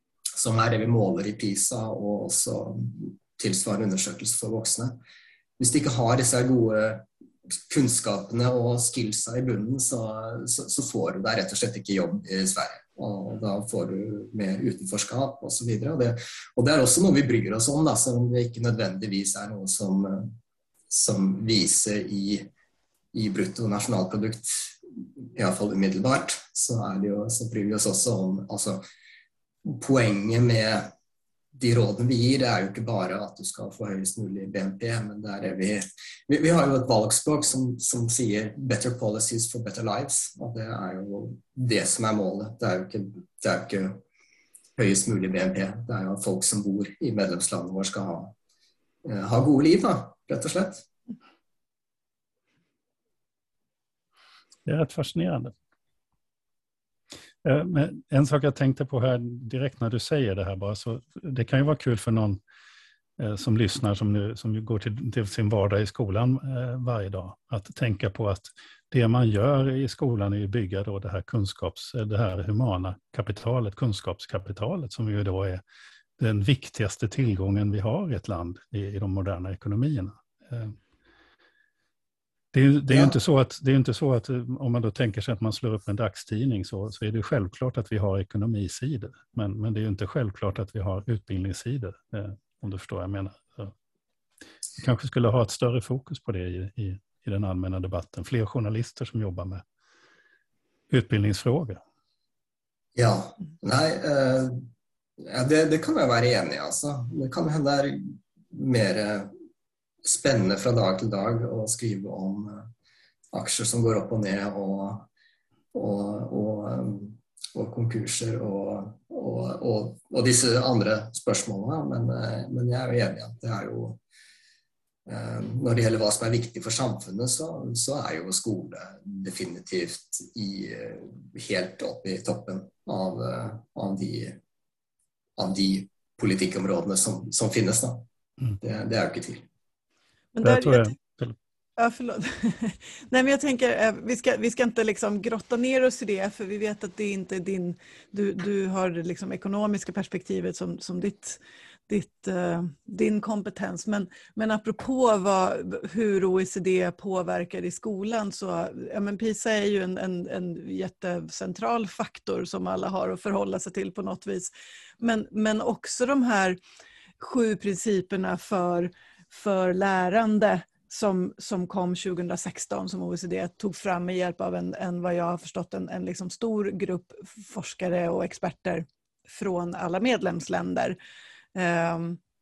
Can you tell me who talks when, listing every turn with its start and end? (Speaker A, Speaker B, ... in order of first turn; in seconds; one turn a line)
Speaker A: 0.3-5.0
Speaker A: 5.6-7.0
Speaker A: 7.7-20.4
Speaker A: 20.9-22.5
Speaker A: 23.1-28.8
Speaker A: 29.6-30.9
Speaker A: 31.5-44.0
Speaker A: 44.8-48.3
Speaker A: 49.0-50.9
Speaker B: 54.6-55.5
Speaker B: 57.4-62.4
Speaker B: 63.2-75.6
Speaker B: 76.2-80.8
Speaker B: 82.5-93.7
Speaker A: 82.9-83.2
Speaker B: 94.8-99.6
Speaker B: 100.9-101.8
Speaker A: 102.9-104.7
Speaker A: 105.2-109.3
Speaker A: 110.0-112.7
Speaker A: 113.3-115.1
Speaker A: 115.7-124.0
Speaker A: 125.0-134.4
Speaker A: 135.4-138.0
Speaker A: 138.6-139.5
Speaker C: 140.3-140.9
Speaker B: 140.4-141.3
Speaker C: 141.8-166.6
Speaker C: 167.2-181.0
Speaker C: 181.5-182.2